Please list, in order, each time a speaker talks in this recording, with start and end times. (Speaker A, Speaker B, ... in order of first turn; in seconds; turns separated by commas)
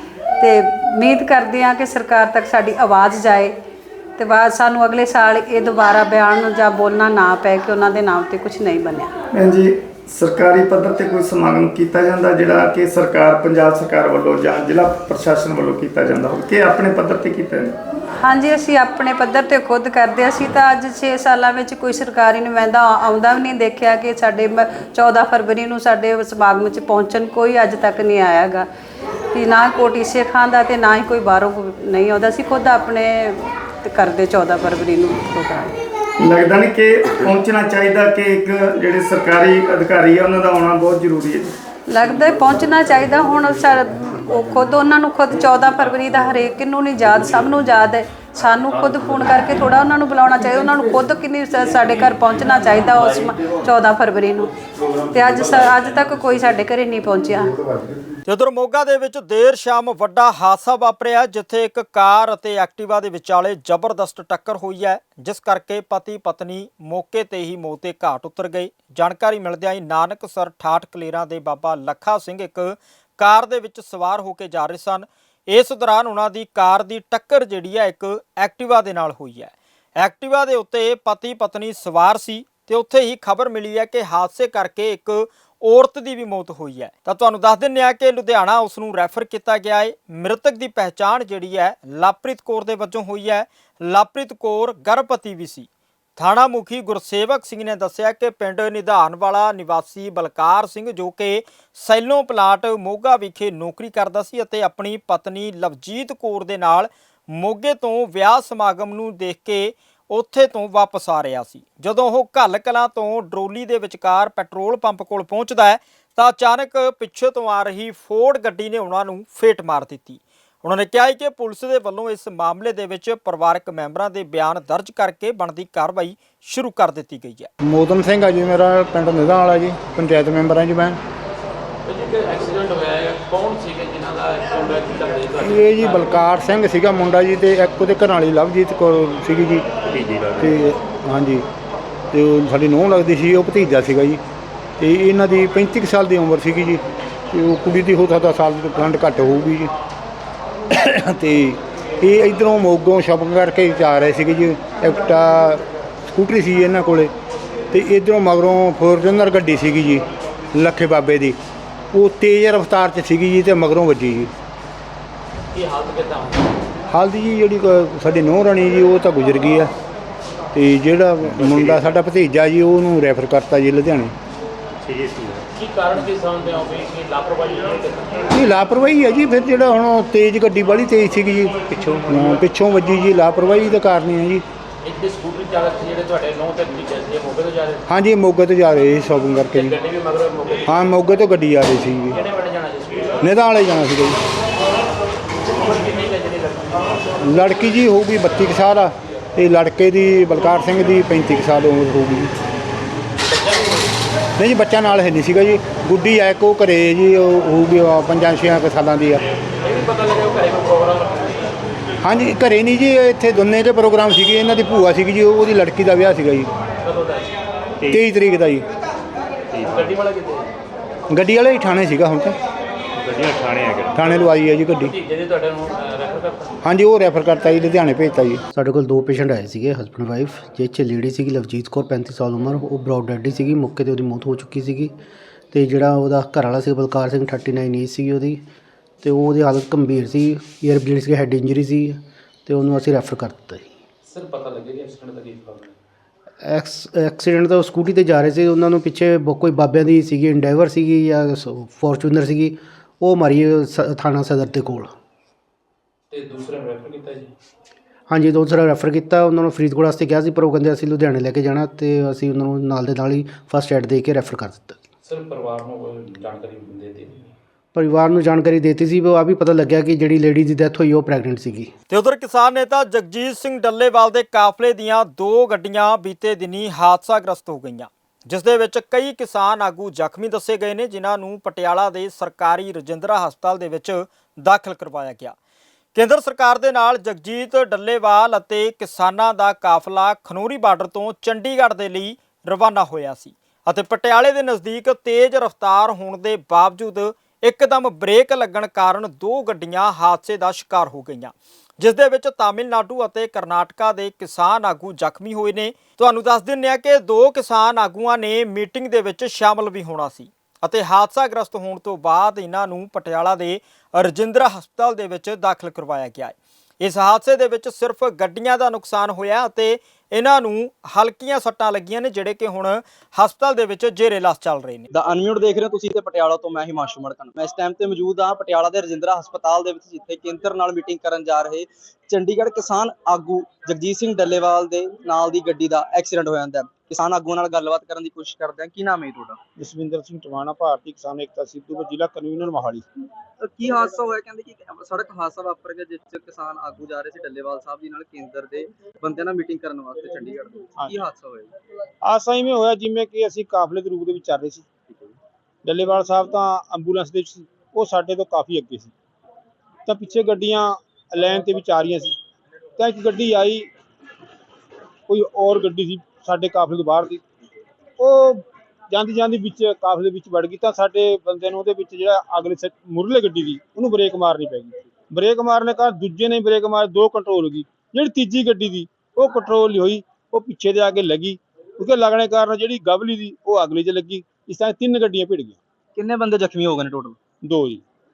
Speaker A: 0.4-3.5, Speaker A: 4.2-9.1, Speaker B: 9.3-17.8, Speaker A: 18.2-28.7, Speaker A: 29.3-35.7, Speaker B: 36.2-41.5, Speaker A: 41.9-54.5, Speaker A: 55.1-57.6, Speaker C: 58.3-127.5, Speaker D: 127.6-131.0, Speaker E: 131.8-136.2, Speaker D: 135.4-139.7, Speaker F: 139.8-140.6, Speaker D: 140.4-141.4, Speaker D: 142.1-144.2, Speaker D: 144.8-149.7, Speaker D: 150.7-155.6, Speaker D: 156.1-157.1, Speaker D: 157.7-161.4, Speaker D: 161.9-164.3, Speaker E: 165.5-166.6, Speaker D: 166.9-169.7, Speaker D: 170.5-174.1, Speaker F: 171.2-171.9, Speaker F: 174.8-175.4, Speaker E: 175.5-178.3, Speaker D: 178.3-184.4, Speaker F: 181.7-182.4, Speaker E: 184.8-187.8, Speaker D: 187.9-189.8, Speaker E: 189.5-190.8, Speaker D: 190.7-192.2, Speaker E: 192.1-193.3, Speaker D: 193.2-194.2, Speaker E: 195.4-197.1, Speaker D: 197.2-202.3, Speaker E: 203.2-203.9, Speaker D: 204.4-209.2, Speaker E: 209.6-211.6, Speaker D: 212.0-216.5, Speaker E: 216.8-217.4, Speaker D: 217.9-218.6, Speaker E: 219.7-220.5, Speaker D: 221.1-222.3, Speaker F: 222.9-224.1, Speaker D: 223.9-224.9, Speaker E: 224.8-226.6, Speaker D: 226.6-228.4, Speaker G: 228.5-234.9, Speaker G: 235.5-238.4, Speaker G: 239.0-243.7, Speaker E: 244.0-245.8, Speaker G: 246.4-254.9, Speaker E: 256.1-257.3, Speaker G: 258.1-264.8, Speaker E: 265.0-267.3, Speaker G: 267.7-271.7, Speaker C: 271.9-285.4, Speaker C: 285.9-324.9, Speaker H: 324.9-339.4, Speaker I: 339.6-342.8, Speaker H: 343.4-351.5, Speaker I: 352.0-354.7, Speaker I: 355.6-358.9, Speaker I: 359.9-362.1, Speaker I: 362.8-363.7, Speaker I: 365.1-367.2, Speaker I: 368.0-385.6, Speaker H: 385.9-387.2, Speaker I: 387.4-387.8